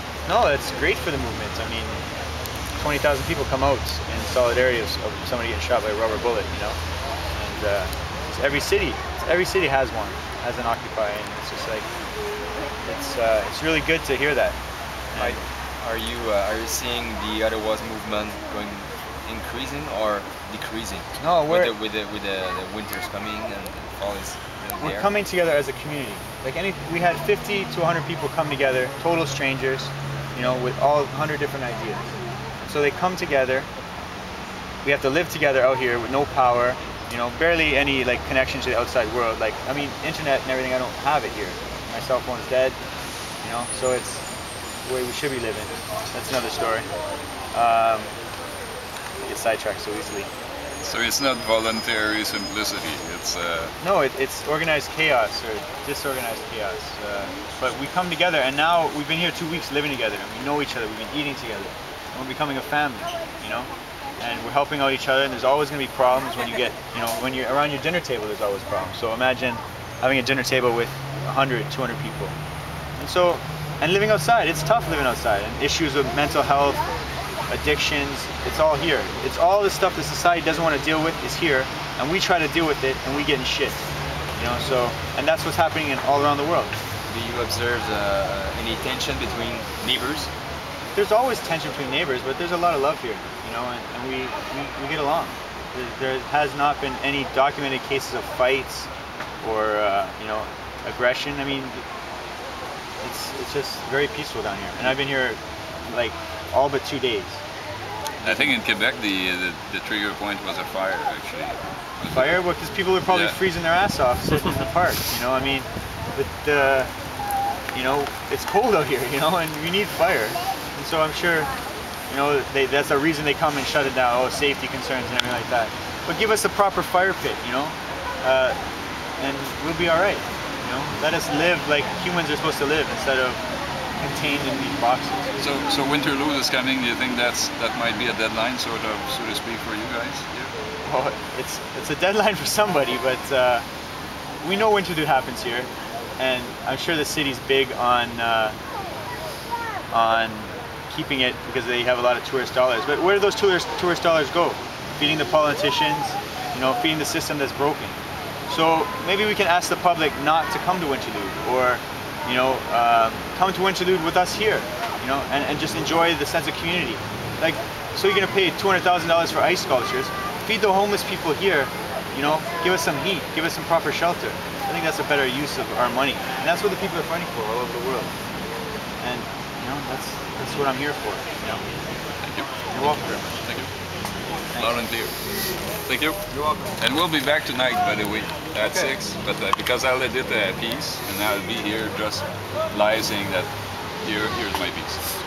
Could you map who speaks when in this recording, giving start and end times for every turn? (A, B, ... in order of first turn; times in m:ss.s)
0:00.2-0:02.0 A
0:02.8-0:06.8 A
0:07.3-0:11.9 A
0:12.8-0:14.6 A
0:15.1-0:15.4 A
0:15.1-0:25.1 B
0:21.2-0:21.7 A
0:24.8-0:32.1 A
0:32.6-0:33.7 A
0:34.8-0:42.8 A
0:43.4-0:44.3 A
0:44.8-0:46.9 A
0:47.5-0:48.1 A
0:49.2-0:50.3 A
0:50.8-0:53.7 C
0:53.8-1:12.3 A
1:13.0-1:16.8 A
1:17.5-1:23.8 A
1:24.4-1:26.7 A
1:27.1-1:30.3 B
1:30.9-1:38.9 A
1:39.4-1:41.8 A
1:43.0-1:47.4 A
1:48.2-1:48.6 A
1:48.2-1:52.4 C
1:52.1-1:56.9 A
1:53.0-1:53.4 C
1:57.7-2:01.5 A
2:02.1-2:08.6 A
2:09.2-2:13.4 A
2:14.0-2:15.4 A
2:15.4-2:20.5 C
2:20.8-2:23.6 A
2:24.4-2:28.6 A
2:29.9-2:58.1 A
2:59.0-3:01.6 A
3:02.2-3:02.5 C
3:02.7-3:03.3 A
3:03.4-3:03.7 C
3:04.5-3:04.8 A
3:04.6-3:05.1 C
3:05.8-3:06.2 C
3:06.3-3:06.7 A
3:06.8-3:13.5 C
3:08.6-3:08.9 A
3:14.0-3:15.0 C